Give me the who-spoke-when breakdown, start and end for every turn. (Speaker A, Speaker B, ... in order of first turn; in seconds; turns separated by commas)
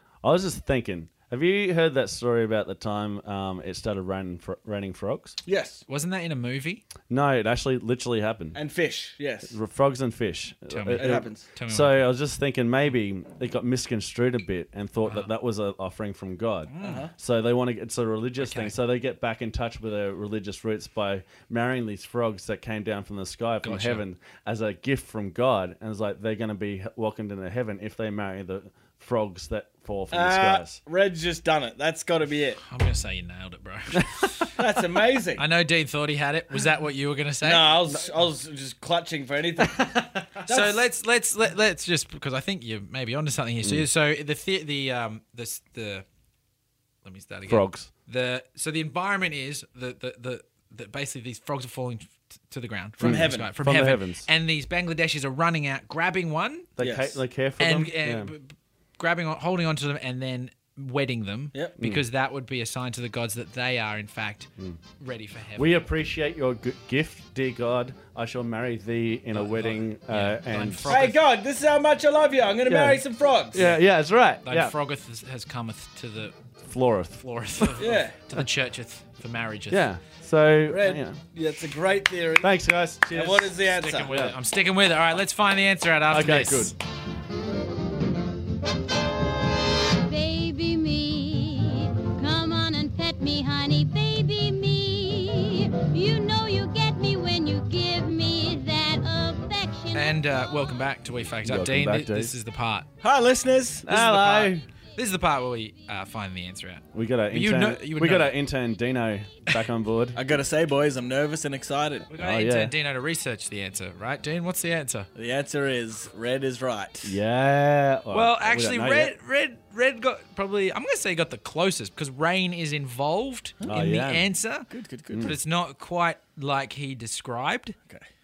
Speaker A: 0.2-5.4, Speaker B: 5.5-5.8, Speaker C: 5.9-6.8, Speaker A: 7.1-8.6, Speaker B: 8.5-9.5, Speaker A: 9.5-30.8, Speaker C: 10.7-12.1, Speaker B: 10.9-11.4, Speaker C: 15.0-15.3, Speaker C: 16.7-17.0, Speaker B: 16.8-17.1, Speaker C: 18.4-18.7, Speaker C: 23.6-24.0, Speaker B: 30.1-32.6, Speaker C: 32.6-34.5, Speaker B: 34.5-35.4, Speaker C: 35.4-37.7, Speaker B: 37.4-40.8, Speaker A: 39.8-40.1, Speaker C: 40.5-46.0, Speaker C: 47.0-56.7, Speaker A: 47.5-47.9, Speaker B: 53.0-53.5, Speaker A: 53.0-54.3, Speaker A: 56.8-58.3, Speaker B: 56.8-57.2, Speaker C: 57.6-65.8, Speaker A: 65.5-71.1, Speaker C: 69.3-71.2, Speaker B: 70.9-73.6, Speaker A: 72.7-74.7, Speaker C: 73.5-73.8, Speaker C: 74.4-76.3, Speaker A: 76.6-77.8, Speaker C: 77.2-79.9, Speaker B: 77.8-78.2, Speaker A: 79.7-81.2, Speaker B: 80.7-82.6, Speaker A: 82.4-83.5, Speaker B: 83.1-84.1, Speaker C: 83.6-86.7, Speaker A: 84.1-84.3, Speaker A: 86.1-86.7, Speaker D: 90.0-100.2, Speaker C: 99.9-102.9, Speaker A: 101.4-102.3, Speaker B: 103.0-103.9, Speaker A: 103.8-104.6, Speaker C: 103.9-108.4, Speaker A: 106.9-110.2, Speaker B: 110.1-112.1, Speaker C: 112.1-115.1, Speaker A: 112.1-112.7, Speaker B: 115.1-117.2, Speaker A: 117.0-119.1, Speaker C: 118.1-124.7, Speaker A: 123.6-124.3, Speaker B: 124.7-125.3, Speaker A: 125.1-125.3, Speaker C: 125.2-127.7